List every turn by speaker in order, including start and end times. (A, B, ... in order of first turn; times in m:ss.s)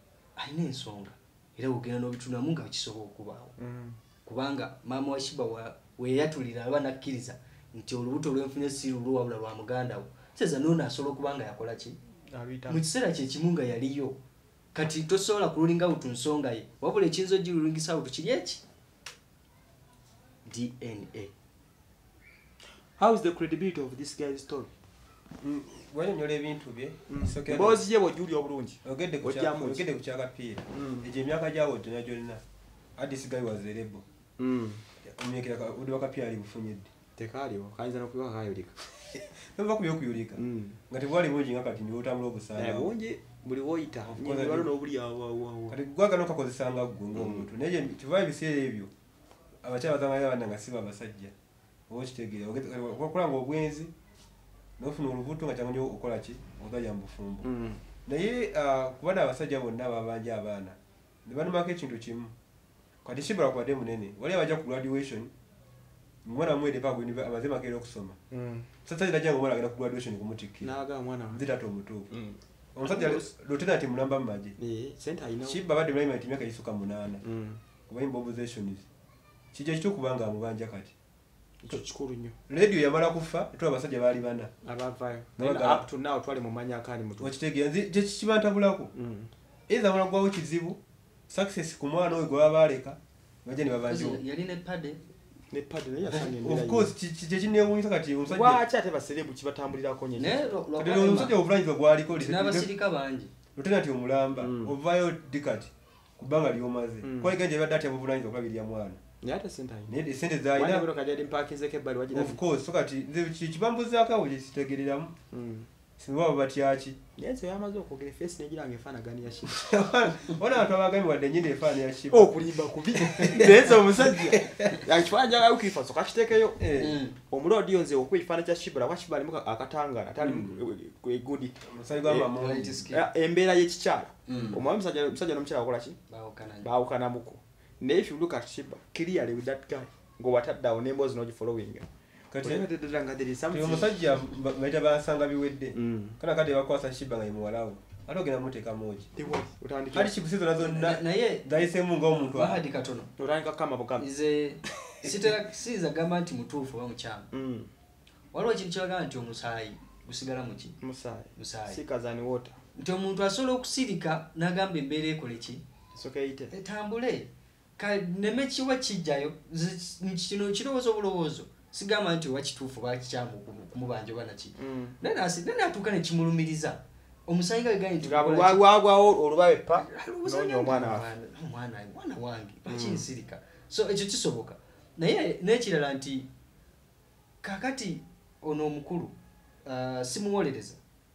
0:00.4-0:03.5 A
0:03.6-0:04.0 B
0:04.2-0:12.0 A
0:12.3-0:12.8 B
0:12.7-0:14.2 A
0:14.7-0:18.6 A
0:20.4-0:21.3 A
0:22.9-0:24.7 B
0:25.4-0:27.8 C
0:27.1-0:29.9 B
0:28.8-0:32.4 C
0:30.7-0:31.1 B
0:33.0-0:34.0 C
0:34.4-0:34.8 B
0:35.0-0:36.9 C
0:37.2-0:38.9 B
0:39.3-0:42.9 C
0:40.4-0:40.8 B
0:42.5-0:45.8 B
0:44.0-0:44.7 C
0:45.7-0:48.9 C
0:47.2-0:47.4 B
0:49.6-0:51.3 C
0:51.9-0:53.9 C
0:54.8-0:57.5 C
0:57.4-0:57.8 B
0:58.0-1:02.3 C
1:03.0-1:05.3 C
1:06.2-1:08.2 C
1:08.3-1:08.7 B
1:08.8-1:10.8 C
1:10.6-1:11.4 B
1:11.3-1:12.1 C
1:12.1-1:13.3 B
1:12.7-1:14.5 C
1:14.6-1:15.6 B
1:15.4-1:17.2 C
1:17.2-1:17.6 B
1:17.9-1:18.8 C
1:19.5-1:20.9 C
1:21.6-1:22.4 B
1:22.5-1:24.5 C
1:24.6-1:27.3 B
1:25.4-1:25.8 C
1:27.2-1:28.9 C
1:28.9-1:29.3 B
1:29.7-1:34.2 C
1:33.9-1:35.0 A
1:35.5-1:36.9 B
1:36.2-1:38.6 C
1:38.2-1:40.5 B
1:40.2-1:41.4 A
1:40.8-1:42.7 C
1:42.2-1:43.3 A
1:43.6-1:49.0 C
1:44.4-1:44.7 B
1:47.0-1:47.4 B
1:49.2-1:49.9 B
1:49.9-1:50.9 C
1:50.5-1:52.4 B
1:52.1-1:55.1 C
1:55.3-1:55.7 B
1:56.0-1:57.0 C
1:57.2-1:59.5 B
1:59.4-2:02.3 C
2:02.1-2:06.6 B
2:03.0-2:04.7 C
2:06.6-2:07.0 C
2:06.8-2:07.2 A
2:07.3-2:12.3 B
2:10.2-2:10.6 C
2:11.6-2:12.8 C
2:12.3-2:13.0 A
2:12.9-2:16.0 B
2:14.3-2:14.6 A
2:14.3-2:14.6 C
2:16.1-2:16.7 A
2:16.6-2:21.9 B
2:22.3-2:22.7 C
2:22.4-2:24.0 B
2:23.5-2:29.1 C
2:25.7-2:26.2 B
2:29.2-2:30.2 B
2:29.9-2:32.6 C
2:30.6-2:31.6 A
2:32.2-2:33.1 A
2:33.2-2:34.1 B
2:34.0-2:37.3 A
2:37.3-2:37.7 B
2:38.3-2:40.7 A
2:40.8-2:42.6 B
2:41.3-2:41.8 A
2:42.7-2:45.6 A
2:45.9-2:46.5 B
2:46.5-2:58.6 A
2:54.6-2:55.0 B
2:58.0-3:01.1 B
2:59.7-3:06.3 A
3:02.7-3:03.0 B
3:07.4-3:10.8 A